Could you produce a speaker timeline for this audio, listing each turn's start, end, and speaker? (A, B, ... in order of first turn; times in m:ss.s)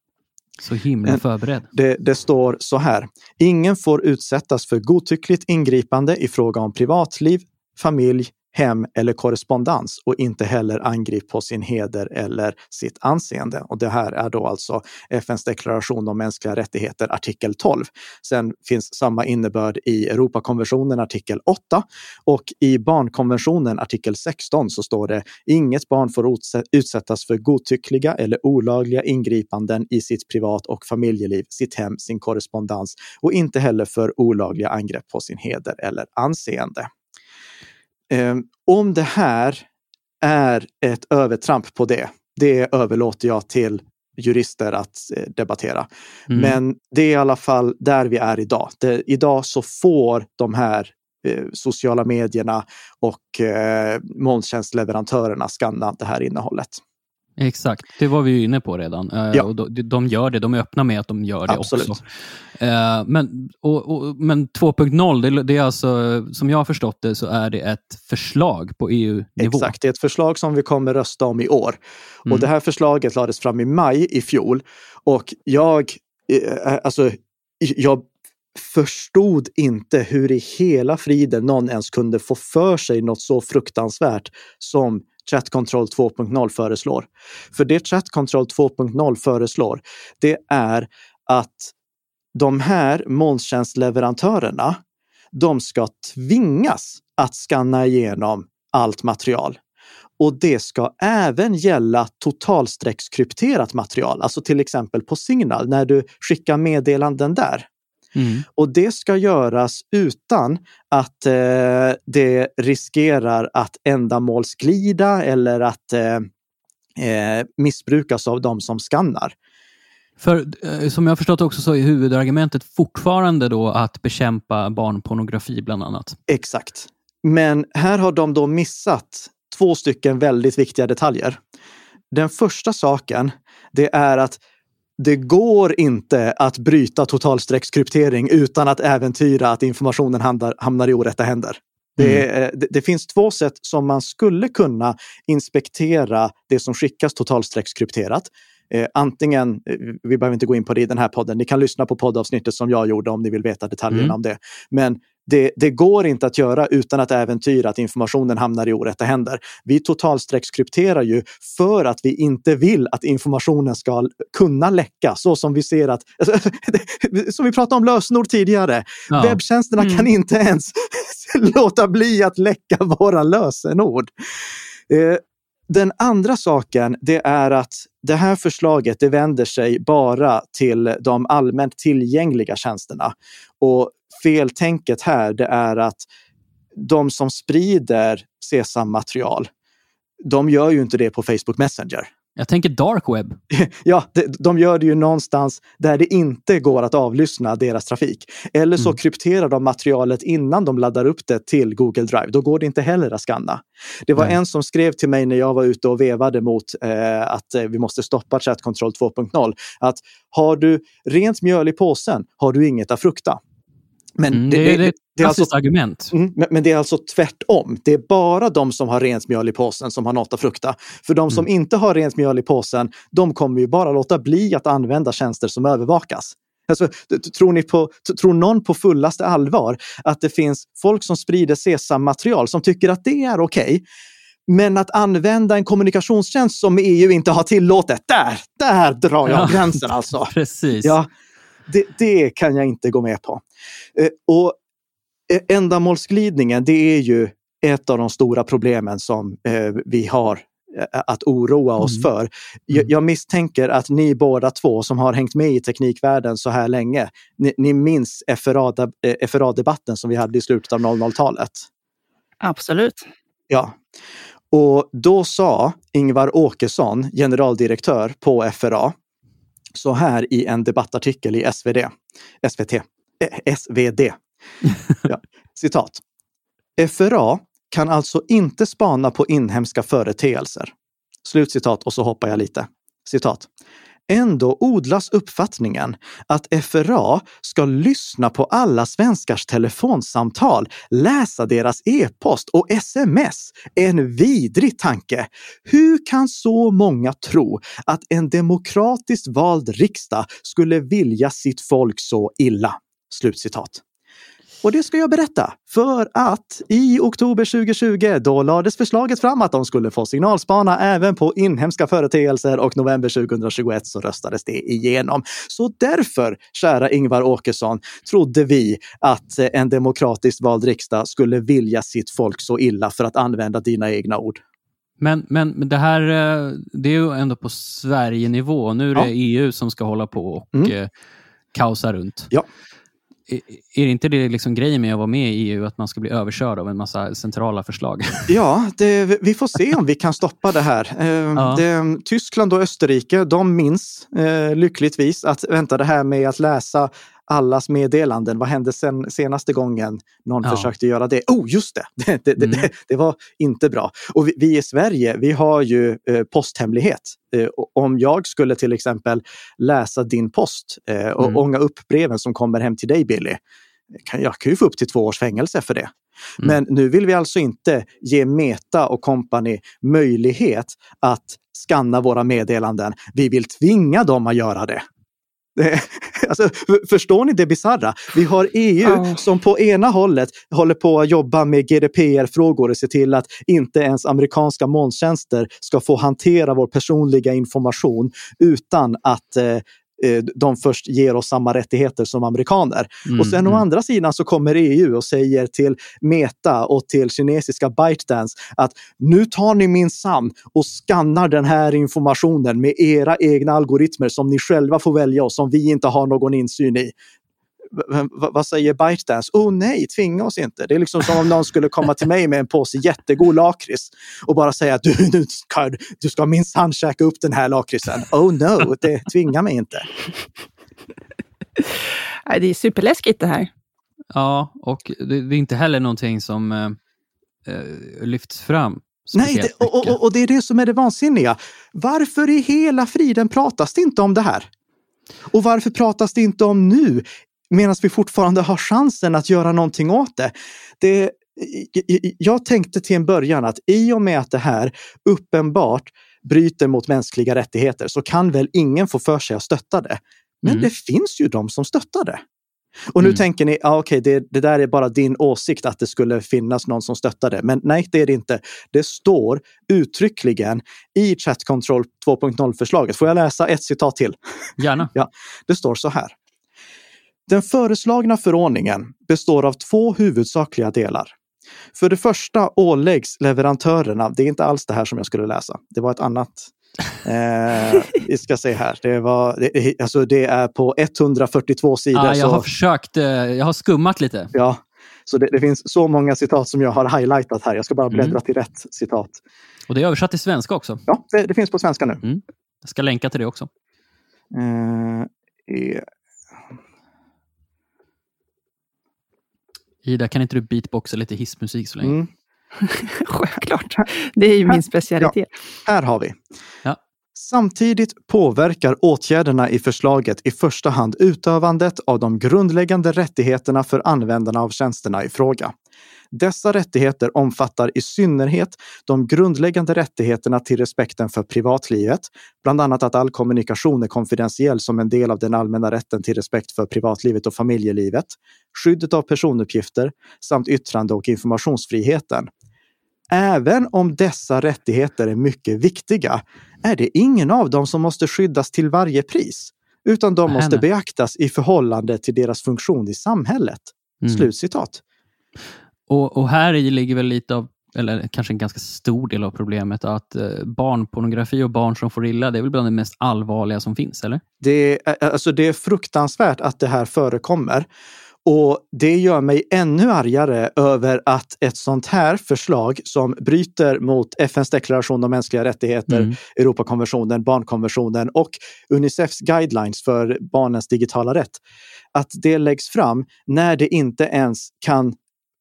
0:00.6-0:01.7 A
0:01.7-0:36.9 B
0:38.1-0:39.7 B
0:40.2-0:56.8 B
0:46.3-0:46.6 A
0:57.4-1:09.7 A
1:01.5-1:02.0 B
1:09.4-1:31.7 B
1:32.3-1:34.8 B
1:35.3-1:39.6 B
1:40.2-1:47.7 B
1:48.2-1:48.4 A
1:48.5-1:56.3 B
1:57.0-1:59.3 B
2:00.2-2:06.2 A
2:06.3-2:11.4 B
2:12.1-2:14.4 B
2:15.0-2:54.1 B
2:22.0-2:22.2 A
2:33.9-2:34.2 A
2:49.1-2:49.4 A
2:54.9-3:06.0 B
3:06.7-3:09.5 B
3:10.2-3:12.1 B
3:12.4-3:13.4 A
3:13.5-3:33.4 B
3:34.2-3:35.5 B
3:34.3-3:36.1 A
3:36.1-3:53.8 B
3:54.5-4:01.1 B
3:59.2-4:01.0 A
4:01.7-4:03.4 B
4:03.9-4:04.6 B
4:05.3-4:21.7 B
4:11.8-4:12.1 A
4:22.4-4:23.0 C
4:23.5-4:23.8 B
4:24.5-4:28.9 B
4:29.7-4:34.2 B
4:35.0-4:36.0 B
4:36.8-4:40.7 B
4:41.2-4:43.5 B
4:44.1-5:03.8 B
5:04.6-5:24.4 B
5:25.0-5:30.9 A
5:31.5-5:32.3 A
5:33.3-5:38.3 A
5:38.3-6:03.4 B
5:41.3-5:41.6 A
5:50.4-5:50.7 A
5:52.4-5:52.7 A
6:04.0-6:14.8 B
6:15.5-6:46.9 B
6:18.8-6:19.2 C
6:33.0-6:33.6 A
6:47.7-6:59.9 B
7:02.2-7:03.5 C
7:04.1-7:06.8 A
7:07.4-7:10.0 A
7:09.1-7:14.5 B
7:15.3-7:32.2 B
7:32.9-7:44.2 B
7:44.6-7:44.9 A
7:44.9-7:46.2 B
7:47.3-7:51.1 B
7:51.7-8:02.4 B
8:01.9-8:04.3 A
8:04.3-8:09.2 B
8:07.9-8:08.2 A
8:09.7-8:10.8 A
8:10.9-8:12.0 B
8:12.0-8:13.5 A
8:14.3-8:15.8 B
8:19.8-8:22.0 A
8:21.8-8:22.1 B
8:22.6-8:25.3 C
8:24.5-8:25.1 B
8:25.6-8:26.2 B
8:27.1-8:35.5 B
8:36.1-8:52.3 B
8:53.1-9:04.8 B
9:00.3-9:00.6 A
9:04.0-9:04.3 A
9:05.9-9:14.2 A
9:14.4-9:17.7 B
9:18.2-9:31.4 B
9:31.9-9:35.0 B